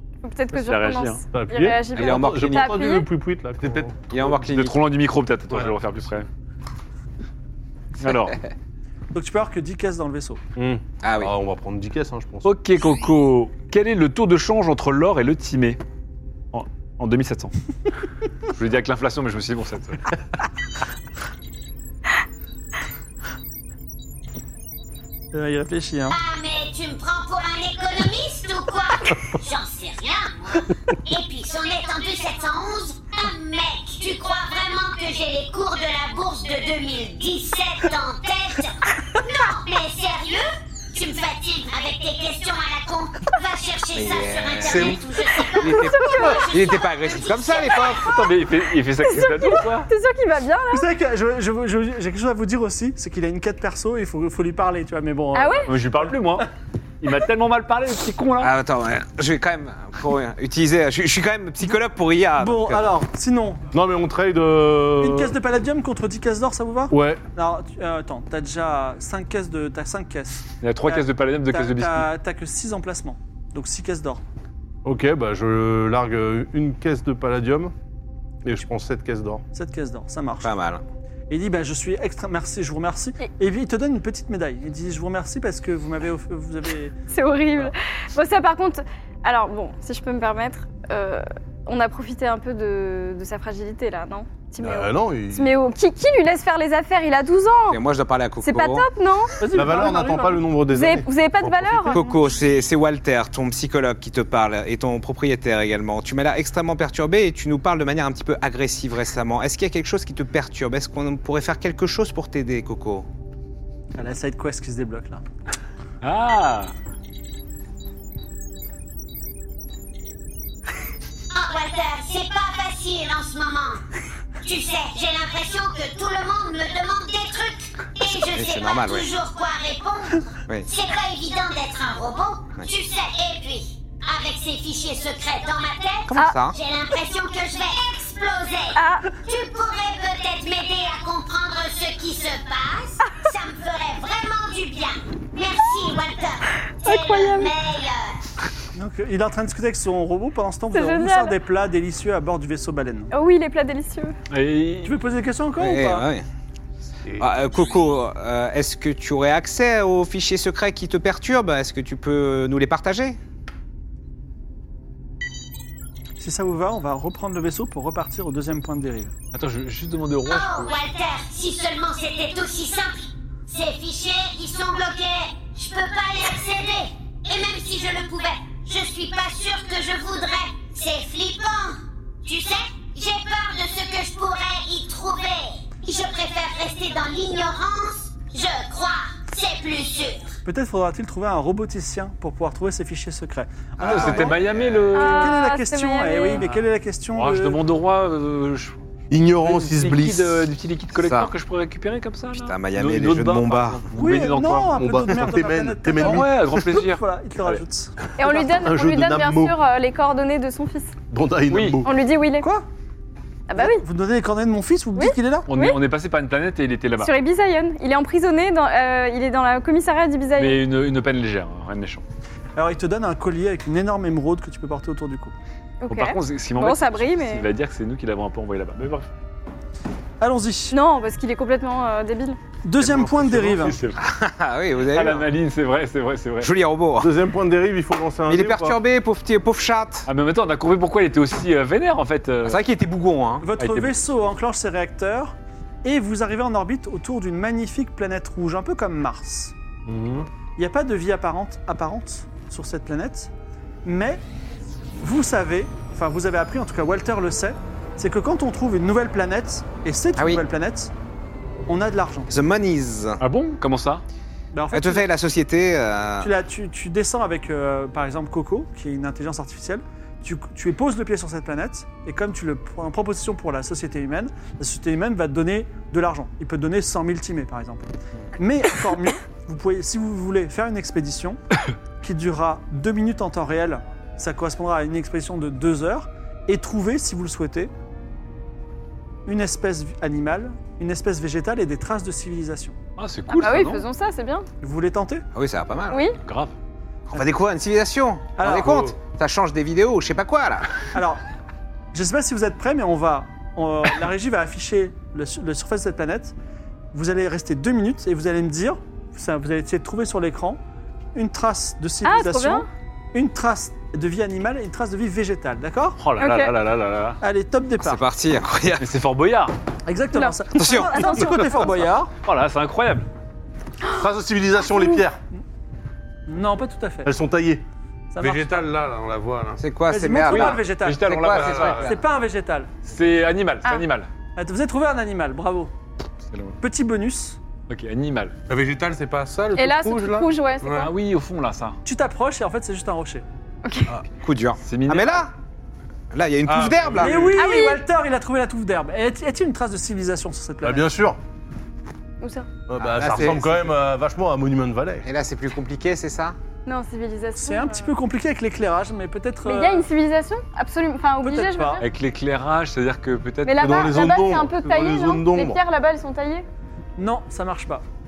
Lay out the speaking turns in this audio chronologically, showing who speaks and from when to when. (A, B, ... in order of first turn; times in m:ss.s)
0:00.2-0:03.1 A
0:00.5-0:01.2 B
0:01.3-0:04.2 C
0:01.9-0:02.8 D
0:04.1-0:04.8 D
0:04.2-0:06.3 B
0:08.0-0:08.4 B
0:09.1-0:10.4 E
0:10.6-0:12.5 C
0:11.0-0:11.3 D
0:12.4-0:15.8 B
0:16.5-0:17.5 B
0:18.5-0:20.1 B
0:25.3-0:26.2 E
0:26.1-0:48.0 F
0:43.9-0:48.2 D
0:45.6-0:46.5 A
0:48.0-0:49.9 B
0:49.0-0:50.9 A
0:50.7-0:56.5 E
0:55.3-0:55.7 A
0:55.7-0:56.5 B
0:57.0-0:58.5 B
0:58.4-1:02.9 D
1:02.4-1:03.6 E
1:03.7-1:05.3 C
1:05.0-1:14.2 E
1:06.9-1:07.2 C
1:10.6-1:12.1 B
1:14.8-1:17.7 C
1:18.4-1:19.4 C
1:19.5-1:20.5 E
1:20.4-1:20.8 D
1:21.3-1:26.9 E
1:27.1-1:37.8 A
1:34.6-1:35.5 C
1:37.7-1:38.9 D
1:38.4-1:39.3 A
1:39.4-1:40.4 E
1:39.5-1:42.1 C
1:40.7-1:42.2 A
1:41.8-1:53.1 D
1:54.0-1:55.2 E
1:56.0-1:56.7 B
2:01.3-2:03.8 F
2:04.4-2:28.2 F
2:08.3-2:09.1 D
2:16.1-2:16.6 D
2:18.7-2:19.1 A
2:26.8-2:27.5 A
2:28.7-2:33.1 E
2:30.7-2:31.4 A
2:33.1-2:34.1 A
2:34.3-2:35.0 B
2:34.8-2:36.1 E
2:35.6-2:36.2 D
2:37.2-2:43.2 D
2:46.2-2:49.1 E
2:49.3-2:50.7 B
2:50.3-3:10.3 F
3:10.4-3:17.6 E
3:13.8-3:14.9 D
3:13.8-3:15.4 B
3:14.9-3:16.4 A
3:16.3-3:18.8 B
3:19.1-3:20.5 C
3:19.4-3:24.8 B
3:21.0-3:21.3 D
3:22.3-3:23.9 D
3:23.9-3:28.6 E
3:24.7-3:26.6 C
3:26.0-3:27.6 B
3:28.2-3:30.9 A
3:28.6-3:29.6 C
3:31.1-3:31.9 C
3:31.5-3:31.8 B
3:31.8-3:32.5 A
3:32.4-3:32.7 E
3:33.5-3:33.8 A
3:33.5-3:35.5 E
3:35.0-3:35.8 A
3:35.5-3:37.1 B
3:37.0-3:40.6 A
3:40.4-3:42.0 B
3:42.6-3:45.3 E
3:45.8-3:47.5 A
3:45.9-3:49.1 B
3:50.2-3:50.8 E
3:50.7-3:52.4 A
3:52.6-3:53.8 E
3:52.8-3:54.0 B
3:53.3-3:53.6 C
3:54.0-3:55.3 D
3:54.8-3:56.5 B
3:56.4-3:57.1 D
3:57.0-3:58.8 C
3:58.3-4:00.1 D
4:00.1-4:02.6 B
4:02.4-4:03.5 D
4:03.4-4:09.6 E
4:03.6-4:04.0 B
4:09.9-4:10.2 C
4:10.6-4:13.3 E
4:13.8-4:14.2 E
4:15.0-4:20.9 E
4:20.2-4:20.4 D
4:21.7-4:22.3 E
4:22.3-4:23.2 D
4:23.2-4:24.0 B
4:24.5-4:25.1 E
4:24.7-4:26.3 D
4:26.2-4:41.4 E
4:42.0-4:47.7 E
4:49.3-4:52.8 E
4:53.0-4:53.8 B
4:53.3-4:54.5 A
4:54.6-4:55.2 E
4:55.3-4:56.0 D
4:55.9-4:56.2 A
4:56.2-4:56.5 B
4:57.1-5:00.9 D
4:58.4-4:58.9 E
4:58.6-4:58.9 G
5:00.9-5:01.2 E
5:01.9-5:06.4 E
5:06.9-5:10.6 E
5:11.2-5:16.0 E
5:12.0-5:12.7 A
5:16.0-5:17.2 B
5:16.2-5:16.5 A
5:17.2-5:18.0 E
5:17.8-5:18.9 D
5:18.8-5:19.5 B
5:19.9-5:22.1 E
5:20.1-5:21.7 A
5:20.6-5:21.3 D
5:22.2-5:23.1 B
5:23.9-5:25.2 C
5:24.7-5:25.0 A
5:26.3-5:27.1 E
5:27.0-5:27.6 C
5:28.1-5:28.7 E
5:28.2-5:29.6 G
5:29.6-5:32.0 D
5:29.9-5:31.1 E
5:30.3-5:32.0 B
5:31.2-5:31.8 G
5:31.8-5:32.7 E
5:32.9-5:34.1 B
5:34.4-5:35.7 E
5:36.3-5:36.6 B
5:36.6-5:37.4 E
5:37.7-5:38.4 B
5:38.5-5:40.9 G
5:39.6-5:40.9 A
5:40.8-5:41.8 B
5:41.8-5:43.2 E
5:43.6-5:43.9 A
5:44.0-5:45.3 D
5:44.7-5:45.3 B
5:46.1-5:47.4 D
5:46.4-5:47.5 G
5:47.0-5:50.9 E
5:47.4-5:47.8 A
5:50.6-5:51.2 C
5:52.2-5:52.5 A
5:52.7-5:55.1 C
5:52.8-5:53.6 D
5:55.0-5:56.4 D
5:56.7-5:57.9 A
5:57.4-5:59.9 E
5:59.4-6:01.8 A
6:01.2-6:01.9 E
6:01.8-6:03.9 B
6:03.4-6:06.5 A
6:03.6-6:05.6 C
6:07.0-6:07.8 E